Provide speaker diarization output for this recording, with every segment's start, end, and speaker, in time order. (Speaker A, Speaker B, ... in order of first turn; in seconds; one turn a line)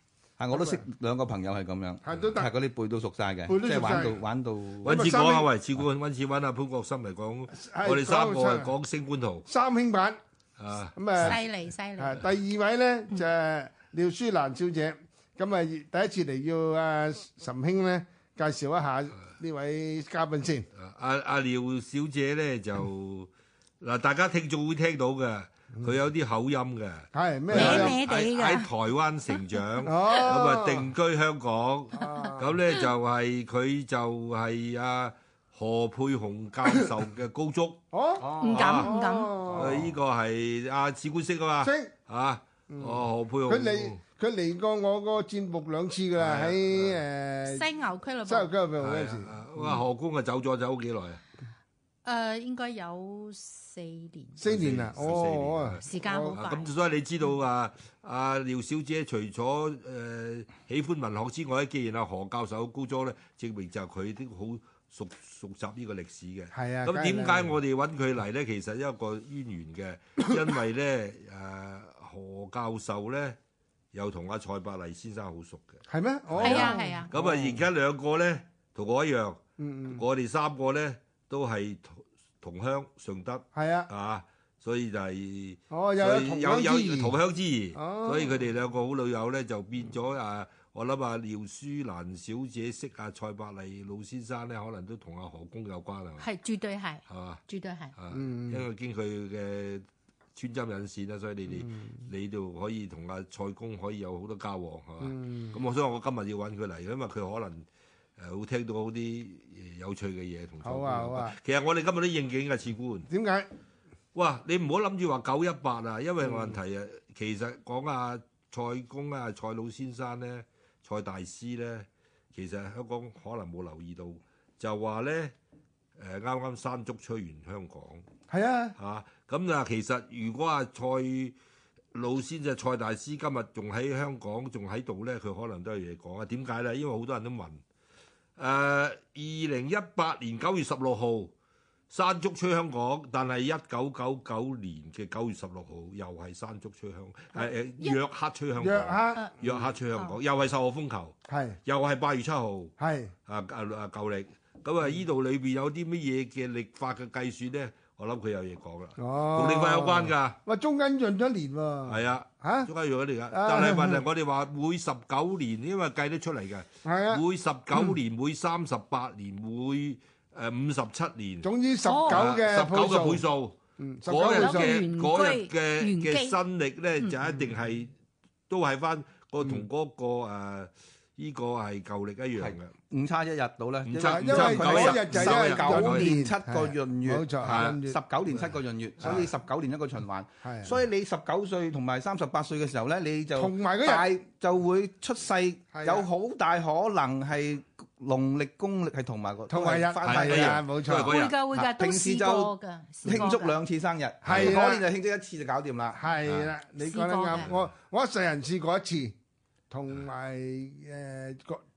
Speaker A: 0.4-5.0
Speaker B: 0.5-0.8
Speaker B: 2.0-2.5
Speaker B: 3.5-4.2
Speaker C: 4.8-9.5
Speaker B: 4.8-5.5
Speaker B: 7.5-8.7
Speaker B: 9.4-10.2
Speaker C: 10.6-11.4
Speaker B: 10.9-11.4
Speaker D: 11.2-12.2
Speaker B: 12.0-20.7
Speaker C: 20.7-37.8
Speaker B: 27.1-28.0
Speaker D: 27.5-28.7
Speaker B: 29.8-30.9
Speaker B: 31.9-32.5
Speaker B: 37.9-40.0
Speaker A: 38.2-38.6
Speaker D: 38.4-39.4
Speaker C: 38.5-38.9
Speaker C: 39.5-44.0
Speaker B: 41.6-41.9
Speaker B: 42.7-47.6
Speaker C: 46.1-47.0
Speaker D: 47.4-48.5
Speaker B: 48.2-49.8
Speaker C: 48.8-51.2
Speaker D: 52.0-54.4
Speaker B: 54.4-56.4
Speaker C: 54.4-73.4
Speaker D: 55.8-56.7
Speaker B: 66.5-67.6
Speaker C: 73.9-96.3
Speaker B: 75.9-77.6
Speaker D: 76.4-77.1
Speaker B: 79.6-80.0
Speaker B: 83.5-83.9
Speaker B: 85.7-87.2
Speaker B: 87.7-88.4
Speaker D: 96.2-97.9
Speaker C: 97.1-97.4
Speaker C: 97.9-107.7
Speaker B: 98.1-98.6
Speaker B: 101.6-102.0
Speaker B: 105.0-105.5
Speaker C: 108.2-113.1
Speaker B: 110.6-111.4
Speaker B: 113.1-113.5
Speaker C: 114.1-125.3
Speaker C: 126.0-128.0
Speaker B: 128.3-128.7
Speaker C: 128.8-131.3
Speaker C: 131.9-137.6
Speaker C: 138.4-141.3
Speaker C: 141.9-152.7
Speaker B: 148.6-149.7
Speaker B: 151.3-151.6
Speaker B: 152.8-153.1
Speaker C: 153.3-160.4
Speaker B: 159.0-162.7
Speaker C: 161.8-171.5
Speaker B: 163.3-164.0
Speaker B: 166.8-167.2
Speaker B: 171.4-173.2
Speaker D: 171.8-172.3
Speaker C: 172.1-177.9
Speaker B: 173.8-174.8
Speaker D: 174.3-176.4
Speaker C: 178.5-182.7
Speaker A: 182.4-200.6
Speaker C: 183.8-186.1
Speaker B: 184.0-188.0
Speaker C: 187.4-189.3
Speaker B: 189.0-189.3
Speaker B: 190.4-190.8
Speaker B: 193.3-194.1
Speaker B: 195.7-196.1
Speaker B: 199.5-201.1
Speaker C: 200.0-201.3
Speaker D: 200.9-203.6
Speaker A: 201.5-202.5
Speaker A: 203.0-206.0
Speaker B: 204.2-204.8
Speaker B: 205.9-209.2
Speaker C: 206.2-206.5
Speaker D: 206.8-207.5
Speaker B: 209.7-211.6